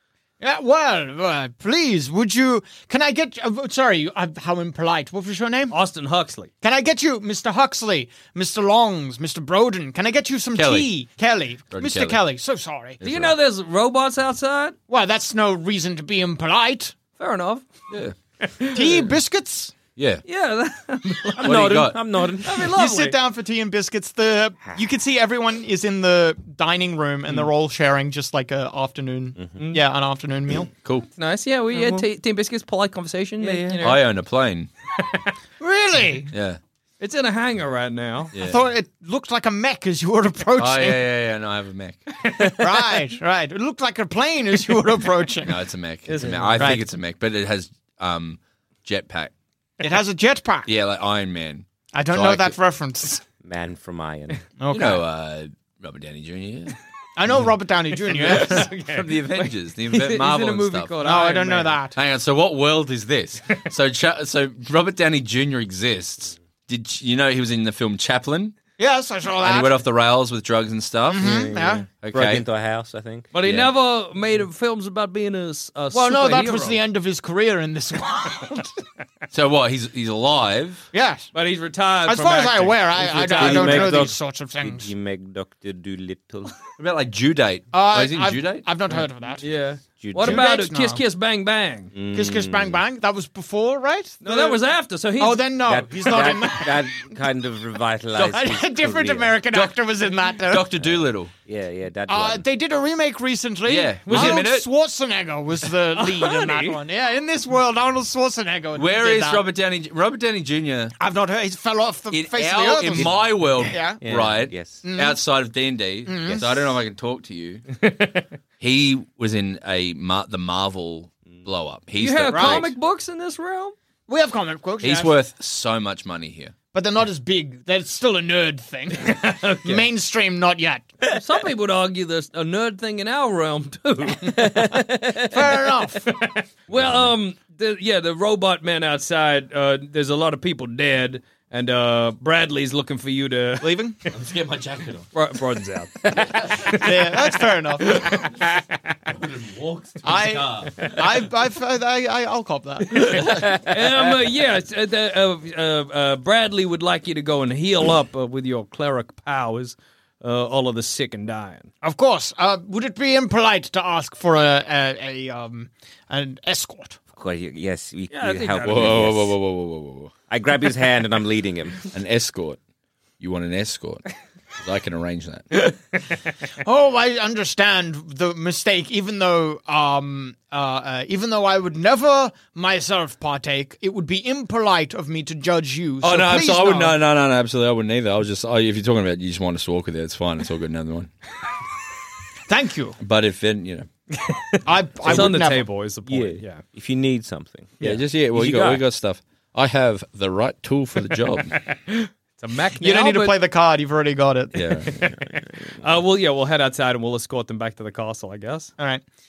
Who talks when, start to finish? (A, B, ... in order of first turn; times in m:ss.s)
0:00.4-0:05.8 A
0:05.7-0:06.5 B
0:06.6-0:13.0 A
0:10.6-0:10.9 C
0:11.7-0:12.2 C
0:13.0-0:13.4 C
0:13.0-0:14.8 B
0:14.9-0:17.0 A
0:17.2-0:17.7 B
0:17.9-0:18.2 C
0:18.4-0:19.1 B
0:18.7-0:19.8 A
0:20.0-0:20.2 C
0:20.3-0:21.7 B
0:21.4-0:22.8 D
0:21.4-0:22.0 C
0:22.4-0:23.2 B
0:22.7-0:30.7 A
0:29.4-0:29.6 D
0:29.6-0:29.8 B
0:30.8-0:31.1 C
0:31.2-0:34.0 B
0:31.7-0:32.1 D
0:33.4-0:34.0 D
0:33.8-0:34.7 C
0:35.6-0:36.3 A
0:36.3-0:36.6 C
0:37.0-0:38.3 B
0:38.3-0:38.6 C
0:38.4-0:41.1 A
0:40.6-0:42.0 C
0:42.6-0:45.6 A
0:45.4-0:49.3 C
0:46.1-0:46.7 B
0:46.6-0:46.8 A
0:49.8-0:50.7 A
0:50.7-0:52.6 C
0:51.9-0:53.2 A
0:53.4-0:54.4 D
0:54.6-0:55.0 A
0:54.7-0:56.8 C
0:57.2-0:58.7 A
0:58.1-1:01.8 B
0:58.2-1:01.0 C
1:01.0-1:02.0 A
1:02.0-1:08.6 C
1:08.8-1:09.8 A
1:09.4-1:11.2 C
1:11.1-1:11.9 A
1:11.2-1:13.3 D
1:12.0-1:12.5 C
1:13.3-1:16.8 B
1:13.4-1:13.7 C
1:15.9-1:18.7 A
1:19.3-1:20.9 C
1:20.9-1:21.3 A
1:21.3-1:24.1 B
1:22.1-1:24.9 A
1:23.0-1:26.5 D
1:26.8-1:28.7 C
1:27.7-1:29.4 A
1:29.4-1:31.9 B
1:30.0-1:30.5 D
1:30.1-1:31.0 A
1:31.9-1:32.8 D
1:32.1-1:34.6 A
1:34.2-1:35.5 B
1:35.2-1:37.2 A
1:35.6-1:39.5 D
1:38.2-1:40.8 A
1:40.4-1:41.3 C
1:40.8-1:42.4 D
1:42.1-1:49.5 A
1:43.6-1:44.7 C
1:44.1-1:44.4 B
1:45.9-1:46.8 B
1:48.8-1:50.9 C
1:51.0-1:54.1 A
1:52.1-1:57.6 C
1:52.9-1:54.9 D
1:54.8-1:55.2 A
1:56.1-1:56.6 A
1:58.6-2:02.7 C
2:02.0-2:03.8 B
2:02.3-2:02.7 A
2:04.1-2:05.2 A
2:04.8-2:06.6 C
2:06.7-2:10.9 A
2:09.3-2:09.8 B
2:11.1-2:23.7 B
2:14.5-2:14.9 D
2:15.3-2:16.2 A
2:16.7-2:17.1 C
2:23.6-2:24.0 A
2:24.1-2:25.1 C
2:25.1-2:27.1 B
2:26.4-2:26.7 C
2:26.7-2:28.2 A
2:29.1-2:31.0 C
2:30.0-2:33.4 A
2:33.0-2:41.7 B
2:41.8-2:47.0 A
2:47.1-2:49.4 D
2:48.1-2:49.1 B
2:48.6-2:50.1 C
2:50.3-2:51.9 D
2:51.9-2:52.6 C
2:53.2-2:54.0 C
2:54.6-2:55.5 C
2:56.6-3:07.0 A
3:06.0-3:11.1 C
3:12.5-3:13.0 A
3:13.0-3:13.9 C
3:14.3-3:16.6 B
3:14.6-3:15.7 A
3:16.0-3:18.9 D
3:17.8-3:21.6 C
3:21.9-3:23.4 B
3:22.8-3:24.8 A
3:24.5-3:24.9 C
3:25.8-3:28.7 B
3:28.8-3:29.0 A